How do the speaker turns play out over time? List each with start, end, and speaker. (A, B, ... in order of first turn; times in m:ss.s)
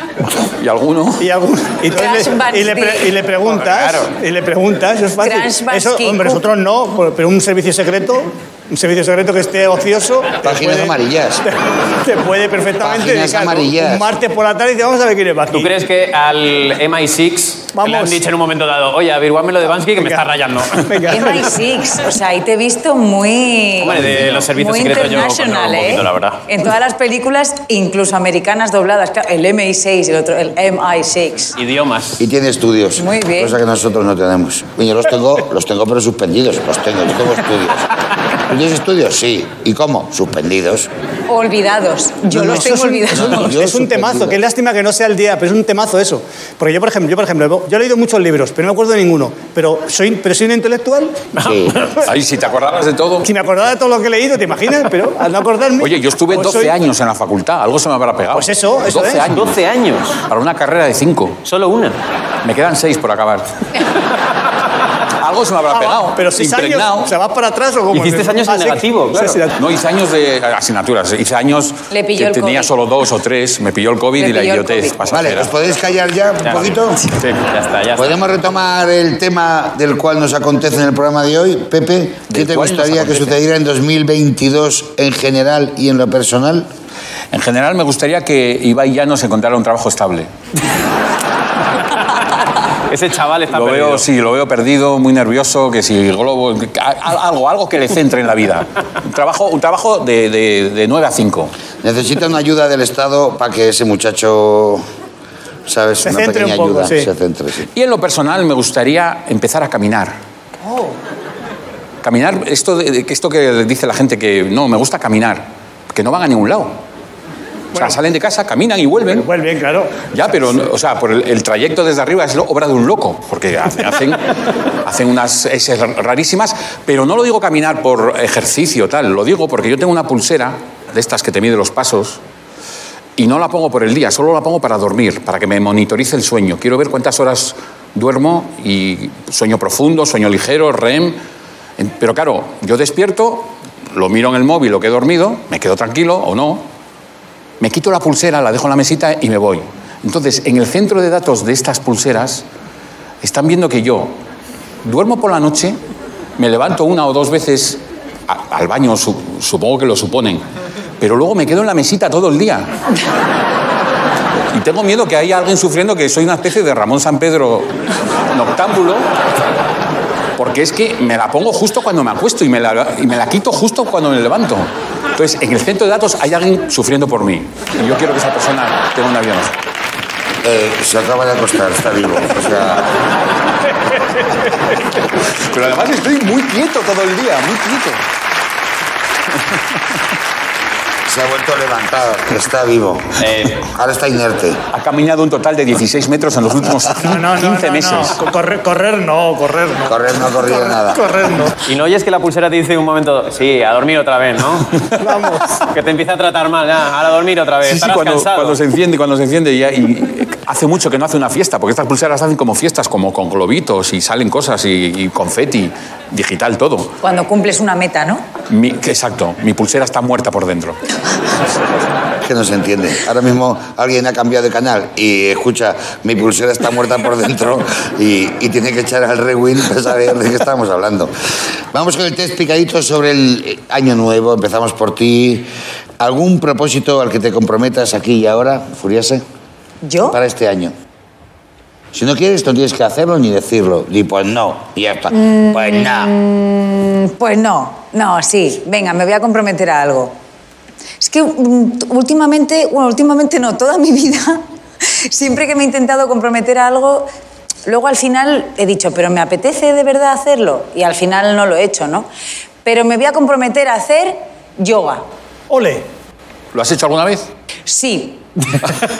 0:00.4-0:01.3 A
0:01.2-0:15.7 B
0:01.9-0:03.2 C
0:03.4-0:04.1 D
0:05.2-0:06.4 C
0:10.4-0:11.4 E
0:12.8-0:14.1 E
0:15.5-0:21.2 D
0:17.7-0:18.2 B
0:20.8-0:21.6 B
0:21.1-0:31.6 C
0:23.8-0:26.4 D
0:31.6-0:32.2 D
0:32.2-0:37.9 E
0:33.0-0:33.6 C
0:38.5-0:40.9 E
0:41.3-0:43.5 C
0:42.3-0:51.2 B
0:42.3-0:44.4 E
0:51.4-0:52.0 D
0:51.4-0:51.8 E
0:52.0-0:53.3 A
0:53.2-0:56.8 B
0:55.8-0:59.6 A
0:58.3-0:59.2 B
0:59.3-1:00.2 D
1:00.3-1:01.4 A
1:01.4-1:02.0 D
1:02.4-1:03.5 A
1:05.2-1:07.1 A
1:05.7-1:09.6 B
1:07.9-1:09.4 D
1:09.6-1:15.5 A
1:11.9-1:12.7 C
1:14.2-1:15.1 C
1:15.1-1:17.0 E
1:16.4-1:16.7 D
1:17.0-1:17.5 A
1:17.4-1:18.2 D
1:18.0-1:26.7 E
1:22.3-1:23.4 A
1:27.3-1:30.3 A
1:32.9-1:34.1 D
1:33.5-1:41.5 A
1:41.8-1:44.8 E
1:45.7-1:47.7 E
1:46.0-1:47.1 B
1:47.7-1:50.1 A
1:50.6-1:51.0 B
1:52.0-1:56.8 A
1:57.7-1:59.3 A
1:59.1-2:00.1 B
2:00.1-2:04.2 A
2:04.8-2:12.2 A
2:13.2-2:21.2 A
2:21.8-2:26.6 A
2:27.6-2:32.4 A
2:33.2-2:34.1 A
2:34.8-2:35.8 A
2:36.4-2:40.4 A
2:41.0-2:42.7 A
2:44.5-2:47.7 A
2:48.3-2:49.0 A
2:50.4-2:59.5 A
3:00.4-3:02.9 E
3:05.4-3:08.0 A
3:11.0-3:14.6 E
3:13.2-3:13.6 D
3:14.7-3:18.2 A
3:17.0-3:21.5 B
3:19.8-3:21.0 E
3:21.6-3:24.8 D
3:25.0-3:25.6 B
3:25.7-3:28.6 D
3:27.6-3:36.9 A
3:37.0-3:38.2 C
3:38.5-3:40.8 A
3:42.2-3:51.1 E
3:51.7-3:55.5 E
3:56.0-3:59.2 E
3:59.8-4:00.2 C
4:00.1-4:00.7 E
4:01.9-4:06.1 E
4:05.1-4:10.1 C
4:11.0-4:17.1 C
4:17.6-4:22.1 C
4:22.6-4:25.0 C
4:25.5-4:25.8 B
4:26.5-4:27.3 A
4:27.7-4:28.2 C